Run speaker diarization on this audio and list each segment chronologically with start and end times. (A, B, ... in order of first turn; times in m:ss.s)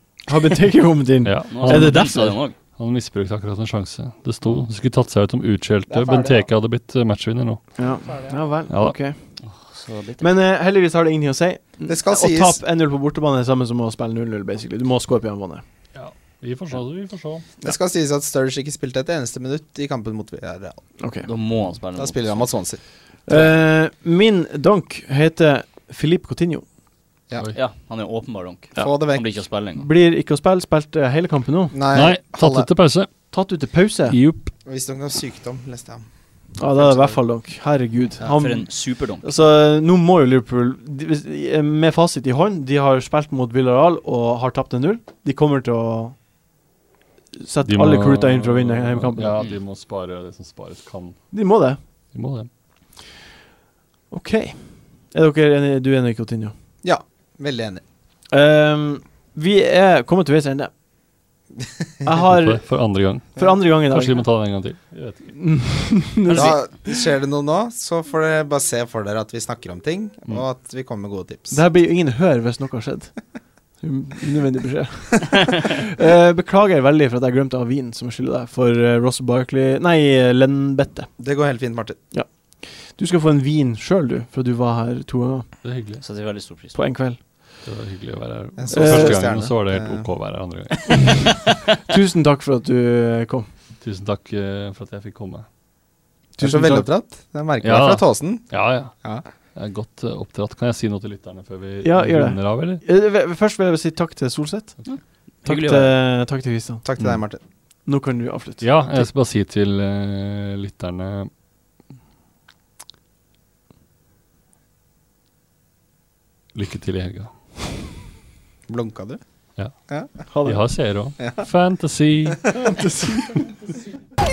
0:00.3-0:02.4 A
0:01.2-0:02.1 B
0:01.5-0:02.6 C
0:02.7-0:07.6 B
0:05.9-0:06.4 D
0:07.8-0:09.2 A
0:08.0-0:08.4 D
0:08.7-0:09.0 B
0:09.4-0:10.3 C
0:10.2-0:15.6 A
0:11.9-0:12.6 D
0:15.9-0:17.4 B
0:17.6-0:20.8 D
0:21.0-0:21.3 A
0:21.2-0:22.5 C
0:22.0-0:22.8 D
0:23.3-0:26.6 A
0:27.5-0:29.9 C
0:28.8-0:29.2 D
0:29.7-0:31.8 A
0:31.7-0:32.7 D
0:31.9-0:33.1 B
0:33.3-0:34.2 A
0:34.1-0:34.5 B
0:34.6-0:36.0 D
0:36.6-0:38.7 A
0:36.8-0:37.2 D
0:38.2-0:39.3 C
0:39.2-0:46.2 A
0:47.4-0:49.4 A
0:47.6-0:51.2 B
0:51.3-0:51.8 A
0:52.1-0:52.5 B
0:54.1-0:56.5 A
0:56.8-0:57.8 D
0:58.3-1:00.7 A
1:01.6-1:02.0 D
1:02.0-1:02.6 A
1:02.3-1:05.3 B
1:03.4-1:04.2 A
1:05.3-1:07.0 A
1:06.2-1:06.6 C
1:06.3-1:11.6 D
1:11.5-1:13.1 A
1:13.8-1:21.1 A
1:21.2-1:22.0 D
1:22.1-1:25.5 A
1:25.6-1:26.0 B
1:26.0-1:26.8 C
1:26.7-1:27.2 A
1:27.6-1:31.4 B
1:28.6-1:30.1 D
1:28.7-1:29.2 A
1:31.8-1:33.5 A
1:33.8-1:35.4 B
1:36.4-1:36.9 A
1:36.4-1:39.2 D
1:37.6-1:42.8 B
1:41.8-1:44.8 A
1:44.8-1:45.9 C
1:45.4-1:46.8 A
1:46.8-1:47.4 D
1:47.8-1:48.6 A
1:48.6-1:51.3 B
1:56.5-1:57.3 B
1:58.7-1:59.2 D
2:00.3-2:02.5 B
2:00.3-2:00.6 A
2:02.5-2:03.4 A